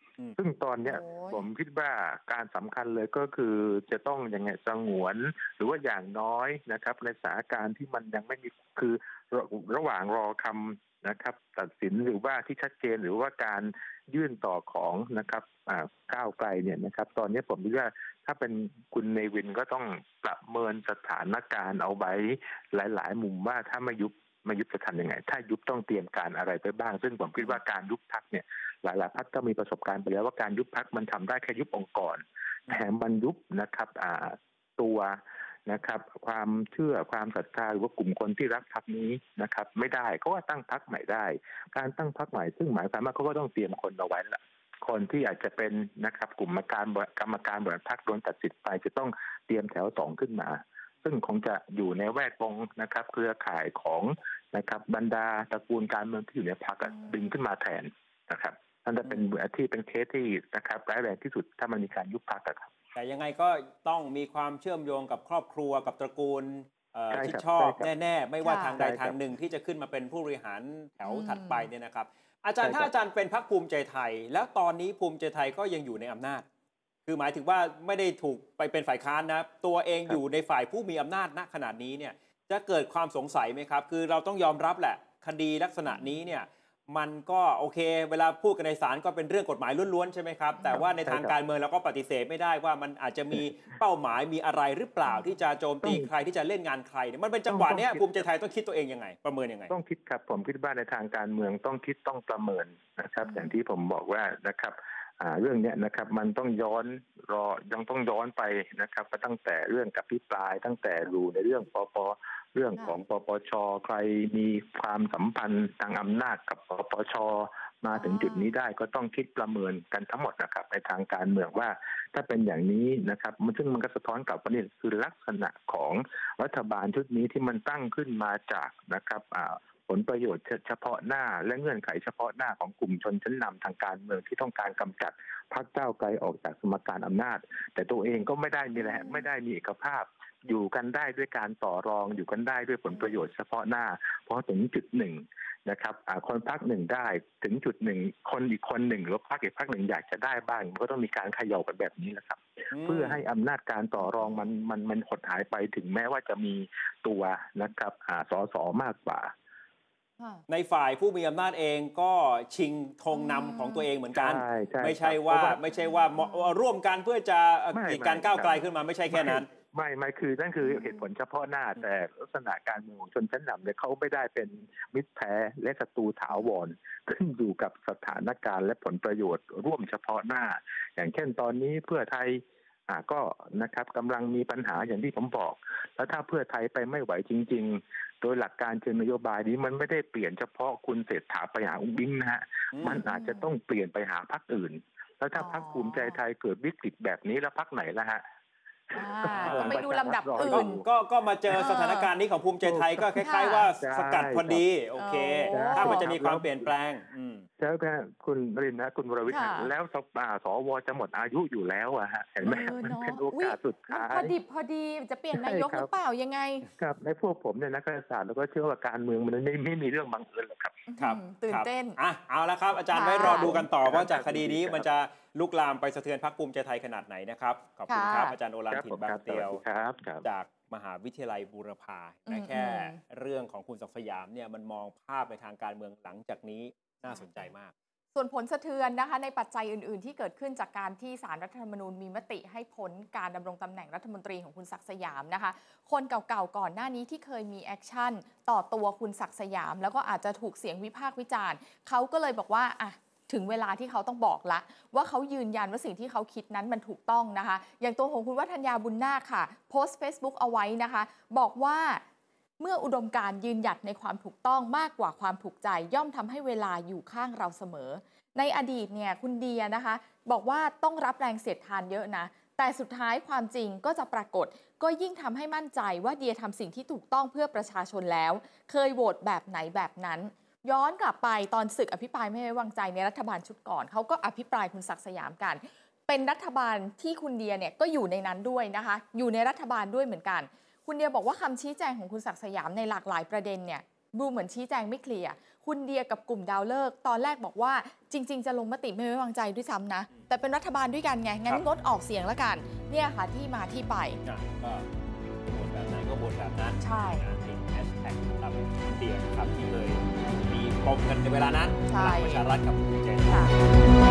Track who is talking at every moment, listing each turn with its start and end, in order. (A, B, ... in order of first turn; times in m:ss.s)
0:00.4-1:02.7 A
0:00.8-0:01.4 B
1:03.0-1:16.5 C
1:07.1-1:07.9 A
1:08.4-1:08.8 B
1:08.7-1:09.2 A
1:11.1-1:11.7 B
1:12.6-1:12.9 A
1:17.1-1:39.7 C
1:30.7-1:31.3 A
1:37.5-1:38.2 A
1:39.7-2:39.3 A
1:43.3-1:43.5 B
1:57.9-1:58.5 B
2:18.8-2:19.2 B
2:32.7-2:33.2 C
2:40.5-2:49.5 C
2:43.1-2:43.9 B
2:44.2-2:45.6 A
2:46.2-2:46.5 B
2:47.7-3:18.2 A
2:50.6-2:51.0 B
3:12.7-3:13.0 C
3:13.0-3:13.5 B
3:15.4-3:16.2 B
3:18.9-3:20.8 A
3:19.0-3:20.8 B
3:19.3-3:19.8 C
3:20.4-3:27.5 C
3:21.5-3:22.1 B
3:22.6-3:24.6 A
3:23.2-3:23.7 B
3:25.0-3:26.1 B
3:25.5-3:26.7 A
3:27.6-3:34.4 A
3:29.3-3:29.7 B
3:32.4-3:36.7 B
3:35.4-3:35.9 A
3:36.7-3:40.8 A
3:40.9-3:42.0 B
3:41.0-3:49.6 C
3:42.9-3:43.6 B
3:43.2-3:44.8 A
3:47.9-3:48.4 B
3:48.7-3:50.2 A
3:50.2-3:57.7 C
3:52.3-3:53.0 B
3:57.1-3:57.4 B
3:58.2-4:22.0 B
4:22.6-5:04.2 B
5:04.2-5:04.9 C
5:05.4-5:13.6 C
5:06.8-5:07.3 B
5:11.9-5:12.4 B
5:13.3-5:13.5 B